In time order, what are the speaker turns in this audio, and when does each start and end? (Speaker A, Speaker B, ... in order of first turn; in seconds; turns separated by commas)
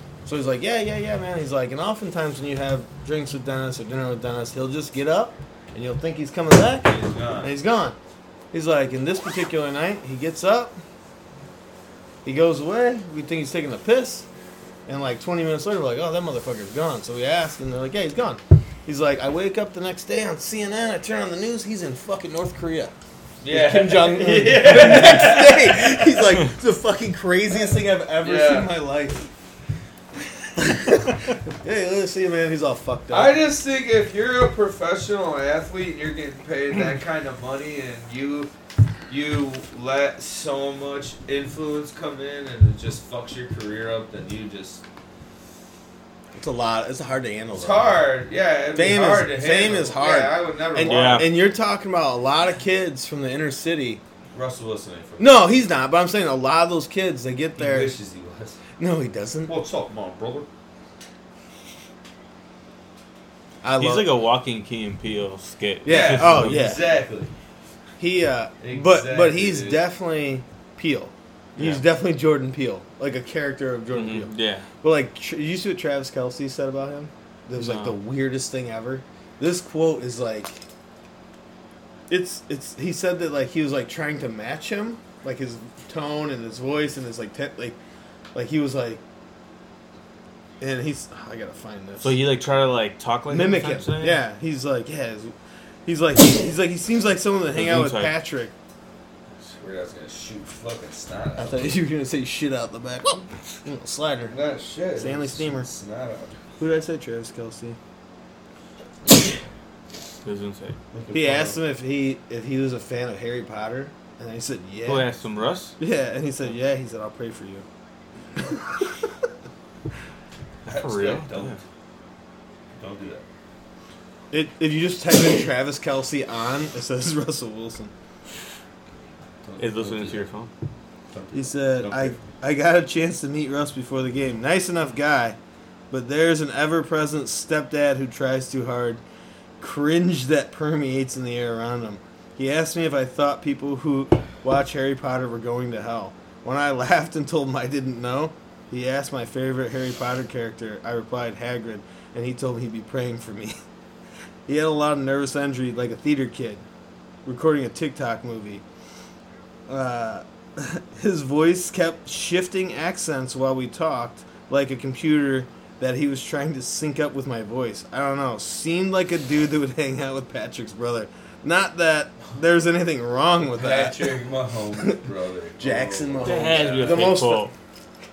Speaker A: 0.2-8.0, Speaker B: 6.8-7.5, Speaker A: 8.5-10.8, Speaker A: 12.2-14.2, Speaker A: 14.9-22.9, Speaker B: 23.4-26.2, Speaker A: 23.5-29.3, Speaker B: 28.2-28.7, Speaker A: 30.6-33.4, Speaker B: 33.1-38.5, Speaker B: 39.1-44.8, Speaker A: 46.3-48.1, Speaker B: 47.5-51.3, Speaker A: 48.7-54.0, Speaker C: 50.8-51.3, Speaker B: 54.3-55.3, Speaker A: 55.2-57.9, Speaker B: 57.5-58.6, Speaker A: 58.8-59.5, Speaker B: 59.5-60.5, Speaker A: 63.6-64.1, Speaker C: 63.8-66.8, Speaker A: 65.8-66.9, Speaker B: 65.8-67.3, Speaker A: 68.0-80.6, Speaker B: 68.6-69.8, Speaker C: 71.6-71.8, Speaker C: 73.9-74.7, Speaker C: 77.5-78.0, Speaker A: 82.1-87.8, Speaker A: 88.3-89.0, Speaker A: 90.6-92.2, Speaker C: 92.0-94.2, Speaker A: 93.3-95.3, Speaker A: 95.8-98.5, Speaker C: 97.5-98.1, Speaker B: 99.6-101.8, Speaker A: 101.4-104.3, Speaker B: 104.3-106.4, Speaker A: 105.0-105.7, Speaker A: 106.6-107.8, Speaker C: 110.2-110.8, Speaker B: 110.9-111.6, Speaker A: 111.1-115.0, Speaker C: 114.8-115.8, Speaker A: 115.8-117.6, Speaker C: 120.7-121.6, Speaker B: 120.7-121.6, Speaker B: 122.8-123.2, Speaker A: 124.3-127.9, Speaker B: 129.4-130.2, Speaker C: 129.6-130.5, Speaker B: 131.1-132.2, Speaker A: 131.3-135.4, Speaker A: 135.9-139.0, Speaker A: 139.6-153.5, Speaker A: 154.5-156.6, Speaker A: 157.2-158.6, Speaker A: 159.7-174.2, Speaker B: 173.5-177.2, Speaker A: 175.6-177.5, Speaker C: 176.2-177.5